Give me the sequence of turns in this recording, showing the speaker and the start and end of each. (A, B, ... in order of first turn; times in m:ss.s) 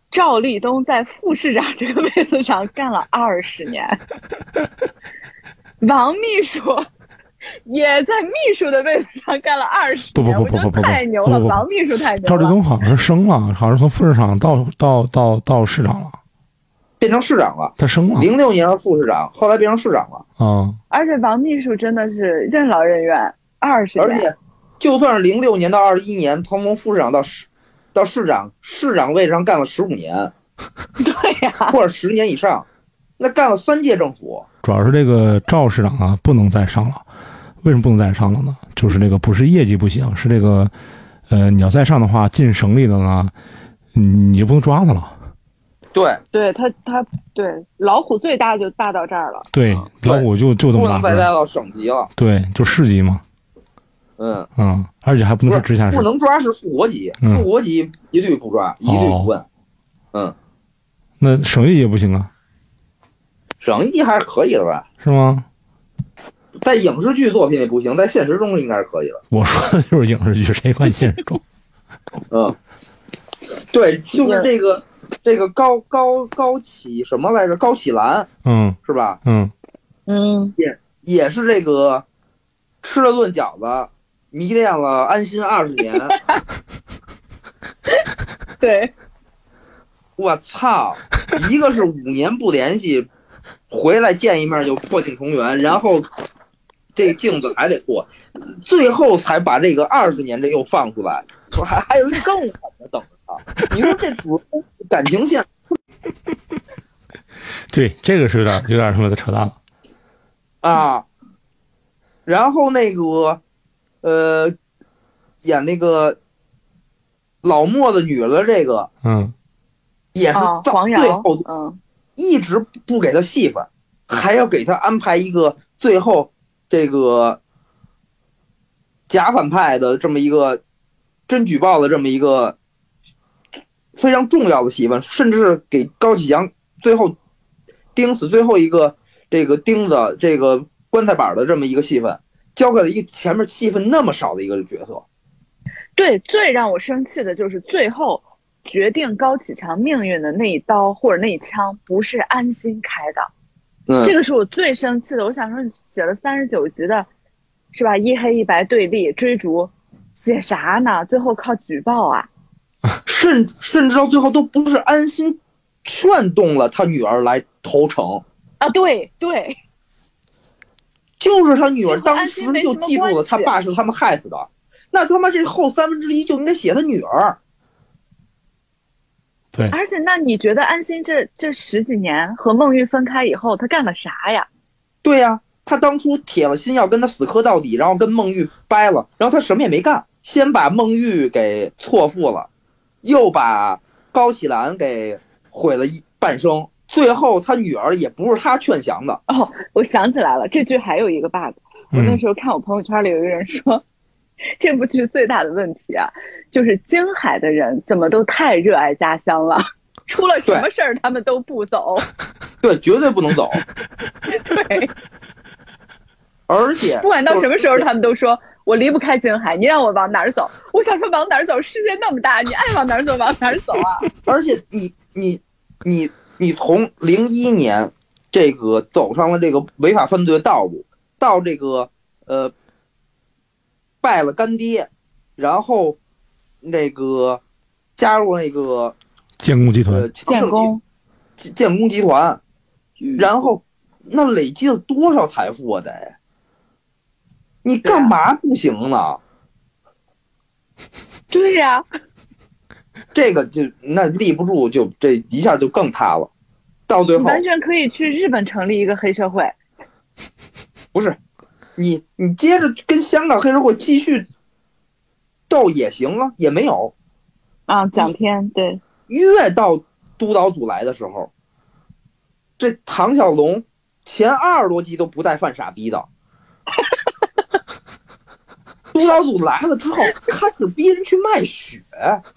0:00.1-0:04.0 A
0:05.8-0:06.9 A
0:07.6-0:12.6 A
0:10.2-0:11.6 B
0:12.2-0:16.2 B
0:17.0-0:20.2 C
0:17.8-0:18.3 B
0:20.4-0:20.8 B
0:20.9-0:24.3 A
0:24.0-0:30.3 C
0:31.0-0:31.8 A
0:31.7-0:32.7 C
0:33.2-0:34.5 C
0:34.6-0:37.0 B
0:37.6-0:40.7 B
0:41.3-0:43.3 B
0:43.9-0:45.2 B
0:46.0-0:46.2 C
0:46.3-0:49.5 A
0:49.5-0:51.3 B
0:50.0-0:52.1 C
0:52.2-0:53.2 B
0:54.2-0:54.5 C
0:54.6-0:56.1 B
0:55.5-0:59.4 C
0:58.8-0:59.3 B
1:01.2-1:02.3 B
1:03.6-1:04.9 C
1:05.0-1:05.5 B
1:06.6-1:09.2 C
1:09.3-1:11.4 B
1:12.3-1:12.6 C
1:13.7-1:18.3 C
1:14.2-1:14.5 A
1:18.4-1:19.5 B
1:18.9-1:19.2 C
1:20.1-1:20.6 A
1:20.6-1:22.0 C
1:22.8-1:26.2 C
1:26.1-1:26.4 A
1:28.6-1:28.9 A
1:30.2-1:33.1 C
1:33.7-1:36.1 C
1:37.0-1:45.5 C
1:47.7-1:49.6 B
1:50.6-1:51.0 C
1:52.3-1:53.4 C
1:54.0-1:54.6 C
1:55.4-1:56.2 C
1:57.4-1:58.9 C
1:59.0-1:59.3 B
2:00.1-2:01.4 C
2:00.3-2:01.8 A
2:02.2-2:07.4 C
2:09.1-2:10.6 C
2:11.3-2:12.6 C
2:14.0-2:17.2 C
2:18.0-2:25.0 C
2:26.0-2:33.3 A
2:33.9-2:34.1 C
2:34.0-2:37.1 A
2:37.7-2:42.3 A
2:43.1-2:48.2 C
2:48.6-2:49.6 A
2:51.2-2:57.4 C
2:51.9-2:53.5 A
2:59.7-3:04.5 A
3:05.0-3:12.5 C
3:13.0-3:19.2 C
3:19.3-3:23.8 A
3:21.9-3:22.2 B
3:24.6-3:32.1 A
3:32.6-3:33.6 C
3:34.3-3:34.9 A
3:36.5-3:37.9 C
3:37.0-3:44.1 A
3:44.3-3:52.5 C
3:54.0-3:56.0 C
3:56.6-3:57.4 C
3:58.0-3:59.0 C
3:59.4-4:00.1 B
3:59.9-4:00.7 C
4:00.3-4:00.8 A
4:01.4-4:02.4 C
4:03.0-4:03.3 A
4:03.2-4:06.2 C
4:07.6-4:09.2 C
4:07.8-4:08.1 A
4:11.3-4:11.8 A
4:13.2-4:16.3 C
4:16.9-4:17.4 C
4:17.2-4:19.6 A
4:21.8-4:24.3 C
4:25.5-4:26.9 C
4:27.7-4:28.8 A
4:29.1-4:31.3 C
4:32.6-4:36.1 C
4:38.9-4:42.2 C